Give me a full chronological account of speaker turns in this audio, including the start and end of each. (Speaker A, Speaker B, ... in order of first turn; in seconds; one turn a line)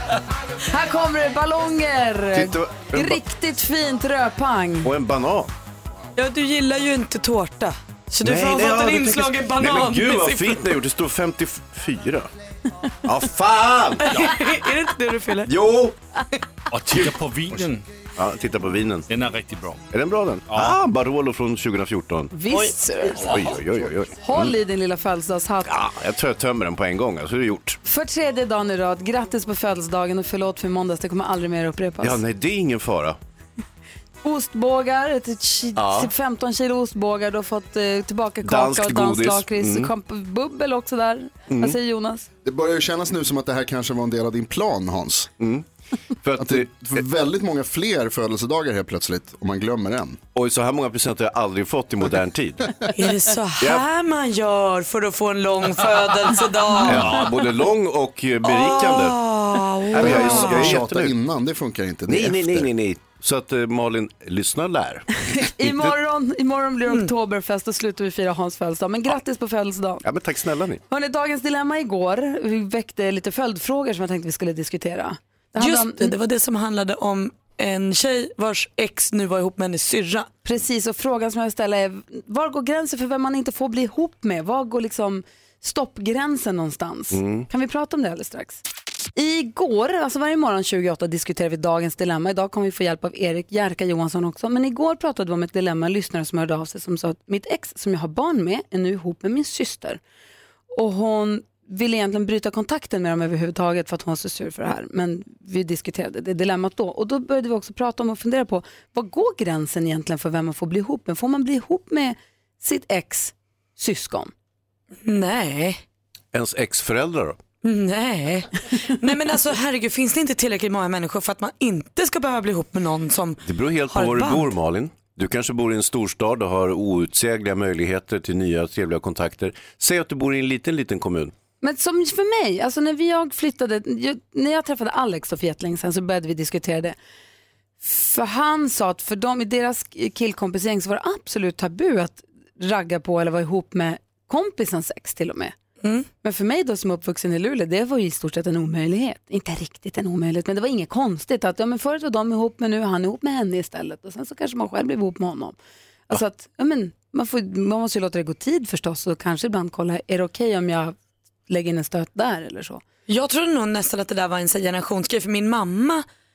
Speaker A: 0.7-4.9
Speaker B: 2.3-3.2
Speaker B: 4.8-5.5
Speaker C: 6.2-10.6
Speaker B: 8.2-12.3
Speaker B: 13.0-14.2
Speaker C: 14.0-15.5
Speaker B: 15.4-15.9
Speaker D: 16.7-17.8
Speaker B: 18.1-19.1
Speaker D: 19.1-19.8
Speaker B: 19.9-22.4
Speaker D: 20.5-20.8
Speaker A: 22.3-23.3
Speaker D: 22.6-23.6
Speaker B: 23.1-24.5
Speaker A: 24.2-25.8
Speaker B: 25.6-27.8
Speaker A: 27.8-32.2
Speaker B: 32.0-33.2
Speaker A: 34.2-42.3
Speaker B: 35.8-36.1
Speaker B: 38.4-39.9
Speaker B: 41.5-41.8
Speaker E: 42.4-45.3
Speaker B: 45.4-45.6
Speaker B: 46.2-47.0
Speaker E: 46.4-50.2
Speaker B: 50.3-52.7
Speaker C: 52.9-57.2
Speaker B: 53.6-53.8
Speaker B: 56.8-59.2
Speaker C: 58.4-60.8
Speaker B: 59.9-61.1
Speaker E: 60.0-62.7
Speaker B: 62.1-65.1
Speaker A: 65.3-70.0
Speaker B: 65.6-65.9
Speaker B: 70.0-70.8
Speaker A: 70.9-76.1
Speaker C: 75.6-80.3
Speaker A: 80.4-88.6
Speaker B: 87.1-87.5
Speaker A: 89.2-100.0
Speaker A: 100.7-114.3
Speaker C: 115.0-115.8
Speaker B: 116.3-117.4
Speaker C: 117.6-124.5
Speaker B: 123.4-131.3
Speaker A: 131.6-137.0
Speaker A: 137.8-145.5
Speaker C: 145.8-146.1
Speaker A: 146.2-155.6
Speaker A: 156.1-160.9
Speaker A: 161.5-162.8
Speaker C: 163.1-166.0